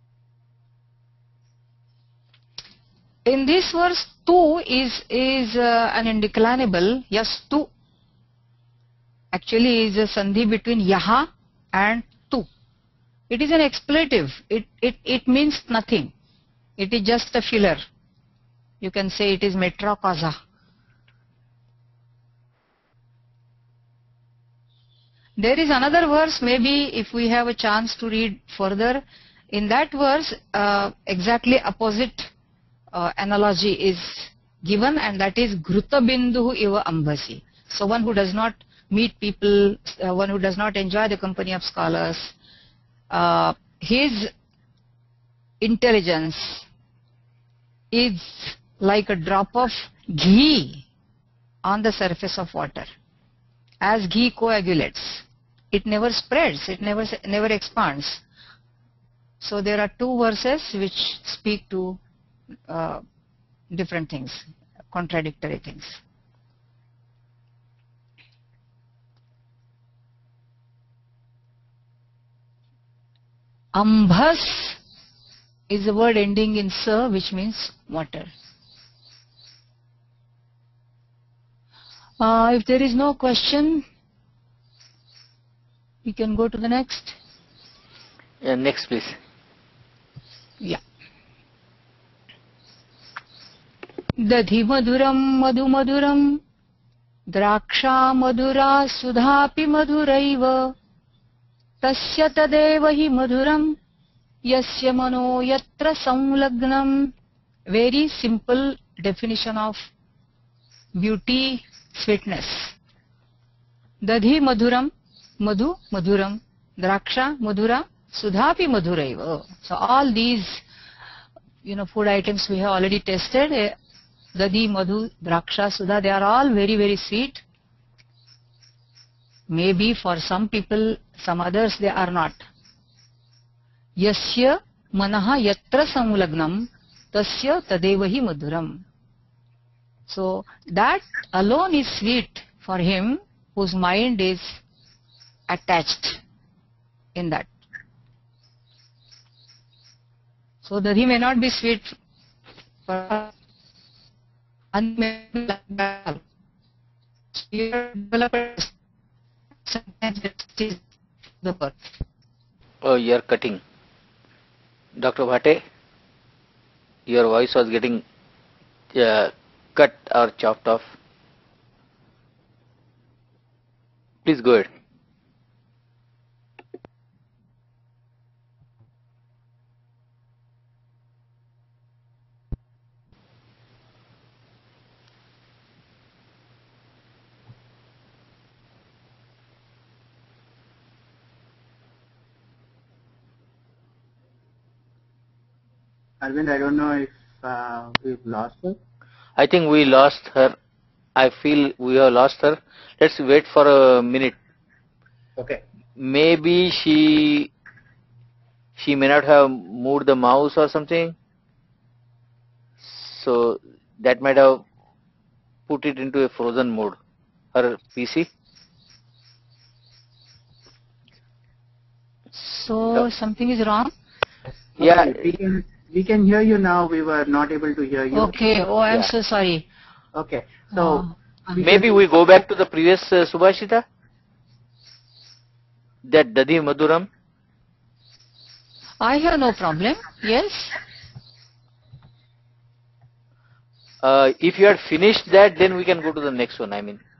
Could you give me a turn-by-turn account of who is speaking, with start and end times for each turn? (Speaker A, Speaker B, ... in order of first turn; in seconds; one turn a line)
Speaker A: 3.2-7.7
Speaker A: 9.3-12.5
Speaker A: 13.3-16.1
Speaker A: 16.8-17.8
Speaker A: 18.8-20.4
Speaker A: 25.4-32.3
Speaker A: 32.9-42.3
Speaker A: 43.1-44.3
Speaker A: 45.6-46.6
Speaker A: 47.9-50.8
Speaker A: 51.6-52.9
Speaker A: 53.8-58.2
Speaker A: 59.4-62.0
Speaker A: 62.7-63.0
Speaker A: 63.7-66.0
Speaker A: 73.7-74.8
Speaker A: 75.7-78.3
Speaker A: 82.2-83.8
Speaker A: 86.0-87.2
Speaker B: 88.4-89.2
Speaker A: 94.2-96.4
Speaker A: 97.3-100.7
Speaker A: 101.8-103.8
Speaker A: 104.4-107.1
Speaker A: 107.7-109.9
Speaker A: 110.9-112.7
Speaker A: 114.0-120.6
Speaker A: 121.6-123.8
Speaker A: 124.3-127.4
Speaker A: 129.5-132.4
Speaker A: 134.0-138.8
Speaker A: 140.1-144.6
Speaker A: 145.5-146.2
Speaker A: 147.1-147.5
Speaker A: 150.6-151.9
Speaker A: 152.9-153.3
Speaker A: 154.7-156.2
Speaker A: 157.3-158.7
Speaker A: 159.7-160.8
Speaker A: 161.4-161.8
Speaker B: 162.8-163.6
Speaker B: 164.9-165.6
Speaker B: 167.1-168.0
Speaker B: 168.9-170.9
Speaker B: 174.2-174.7
Speaker C: 196.2-198.8
Speaker B: 199.4-200.6
Speaker B: 201.2-204.3
Speaker C: 205.4-205.6
Speaker B: 206.0-207.5
Speaker B: 208.8-211.1
Speaker B: 212.8-214.6
Speaker B: 215.7-217.0
Speaker B: 217.5-218.3
Speaker A: 222.3-223.9
Speaker C: 224.8-228.4
Speaker B: 224.8-225.3
Speaker A: 228.1-229.6
Speaker C: 230.1-232.0
Speaker A: 230.7-231.1
Speaker B: 231.6-233.8
Speaker B: 236.0-237.1
Speaker A: 239.0-240.8
Speaker B: 244.0-247.0